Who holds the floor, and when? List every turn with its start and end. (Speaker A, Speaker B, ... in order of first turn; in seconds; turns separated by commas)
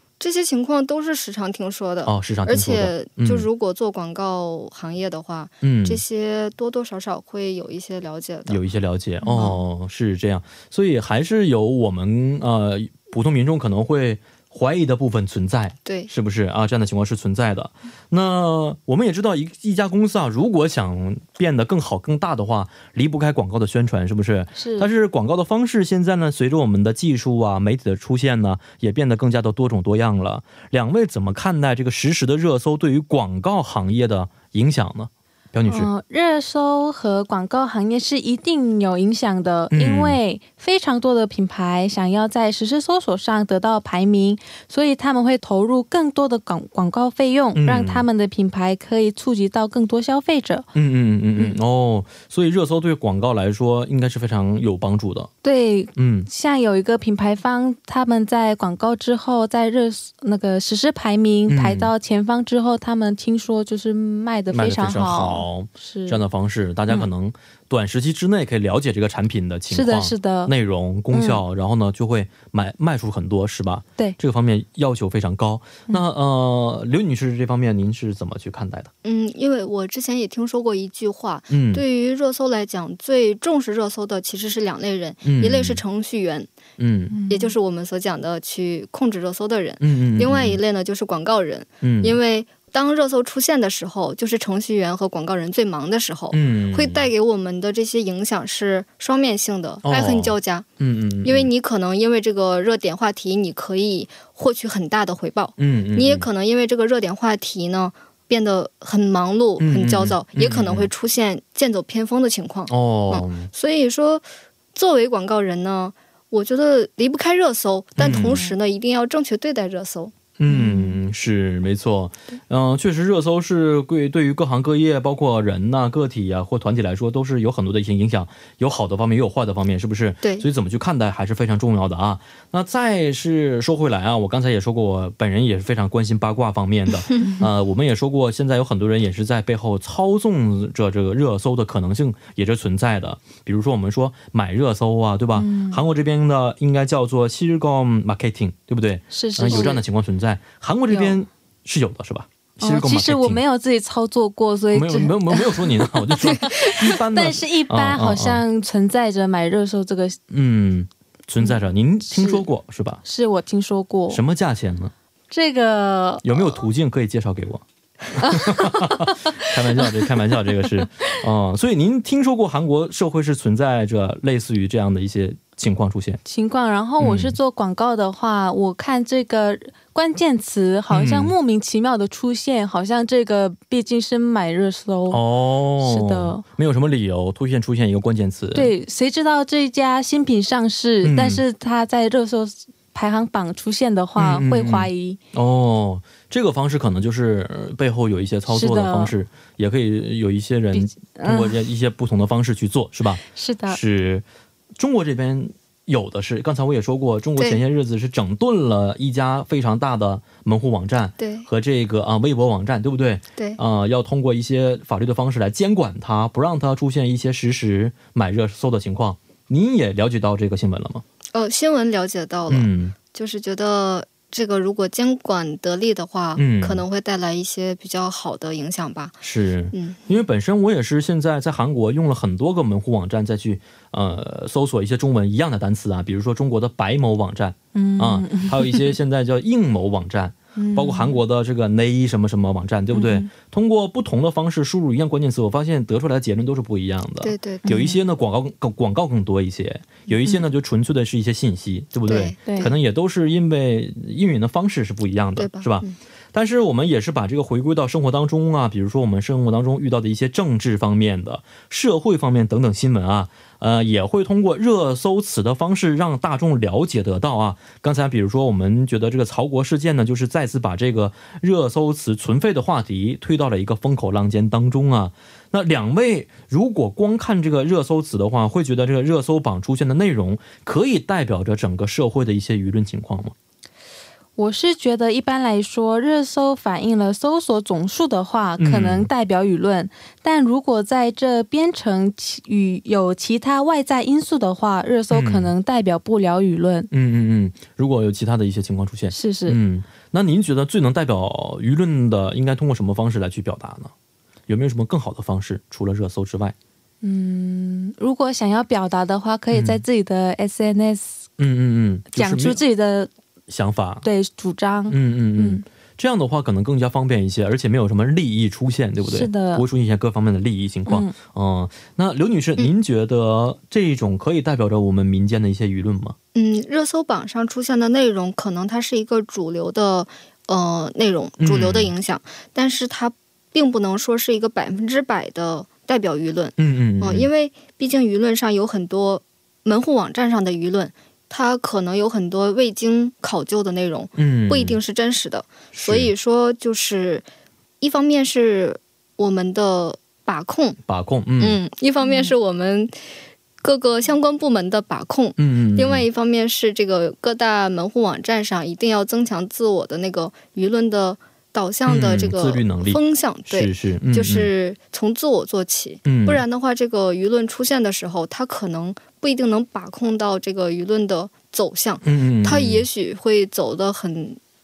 Speaker A: 0.2-8.6, Speaker B: 2.0-3.5, Speaker B: 5.6-6.0, Speaker B: 8.5-35.9, Speaker C: 9.2-9.6, Speaker A: 15.8-16.1, Speaker C: 24.6-24.9, Speaker C: 35.6-50.7, Speaker B: 39.7-40.2, Speaker B: 47.5-48.0, Speaker B: 50.7-55.3, Speaker C: 55.4-66.2, Speaker B: 56.0-56.3, Speaker B: 61.5-61.9, Speaker B: 64.5-78.9, Speaker C: 69.7-70.5, Speaker C: 71.1-71.4, Speaker A: 79.0-86.5, Speaker B: 81.5-81.8, Speaker B: 85.2-85.8, Speaker B: 86.8-87.1, Speaker C: 87.1-87.5, Speaker A: 87.3-100.7, Speaker B: 89.8-90.6, Speaker B: 91.8-92.2, Speaker B: 96.3-97.1, Speaker B: 99.8-101.5, Speaker A: 101.2-120.1, Speaker B: 105.6-106.3, Speaker B: 109.6-110.9, Speaker B: 112.7-113.5, Speaker B: 118.0-118.4, Speaker B: 120.4-153.4, Speaker C: 120.5-121.0, Speaker A: 130.2-130.5, Speaker C: 137.2-137.5, Speaker C: 145.3-145.8, Speaker C: 149.1-149.8, Speaker C: 150.9-151.2, Speaker C: 152.6-160.2, Speaker B: 154.7-158.4, Speaker B: 160.3-163.0, Speaker C: 162.1-162.4, Speaker C: 163.0-164.2, Speaker B: 164.1-164.9, Speaker C: 165.3-166.6, Speaker B: 166.2-176.2, Speaker C: 168.2-170.1, Speaker C: 176.2-185.2, Speaker B: 177.0-177.4, Speaker B: 180.9-181.3, Speaker B: 185.1-188.7, Speaker C: 185.8-186.4, Speaker C: 188.5-195.2, Speaker B: 191.0-191.4, Speaker B: 194.2-204.2, Speaker C: 198.5-199.1, Speaker C: 200.7-201.6, Speaker C: 203.3-203.8, Speaker B: 204.8-221.0, Speaker A: 211.2-211.5, Speaker A: 221.3-230.1, Speaker B: 222.5-222.9, Speaker B: 226.3-226.8, Speaker B: 229.2-283.3, Speaker C: 237.7-238.9, Speaker C: 240.6-241.2, Speaker C: 242.9-243.3, Speaker A: 247.2-247.8, Speaker C: 247.6-248.0, Speaker A: 252.1-252.7, Speaker C: 252.4-252.7, Speaker A: 255.3-255.9, Speaker C: 284.4-296.9, Speaker B: 288.6-289.1, Speaker B: 295.1-295.5, Speaker B: 296.9-303.9, Speaker C: 299.1-299.6, Speaker B: 304.5-306.5, Speaker C: 307.0-311.2, Speaker B: 309.5-309.8, Speaker B: 311.4-312.6, Speaker C: 312.1-313.1, Speaker B: 313.5-314.1, Speaker C: 314.0-315.6, Speaker B: 314.9-326.1, Speaker C: 319.0-319.6, Speaker C: 320.9-321.1, Speaker A: 326.3-347.2, Speaker B: 331.4-331.9, Speaker B: 336.6-337.3, Speaker B: 344.2-344.8, Speaker B: 345.7-346.1, Speaker A: 347.8-350.8, Speaker B: 350.9-351.6, Speaker A: 351.4-352.9, Speaker A: 353.6-374.4, Speaker B: 355.4-356.1, Speaker B: 361.9-364.5, Speaker B: 366.1-366.4, Speaker B: 372.0-372.9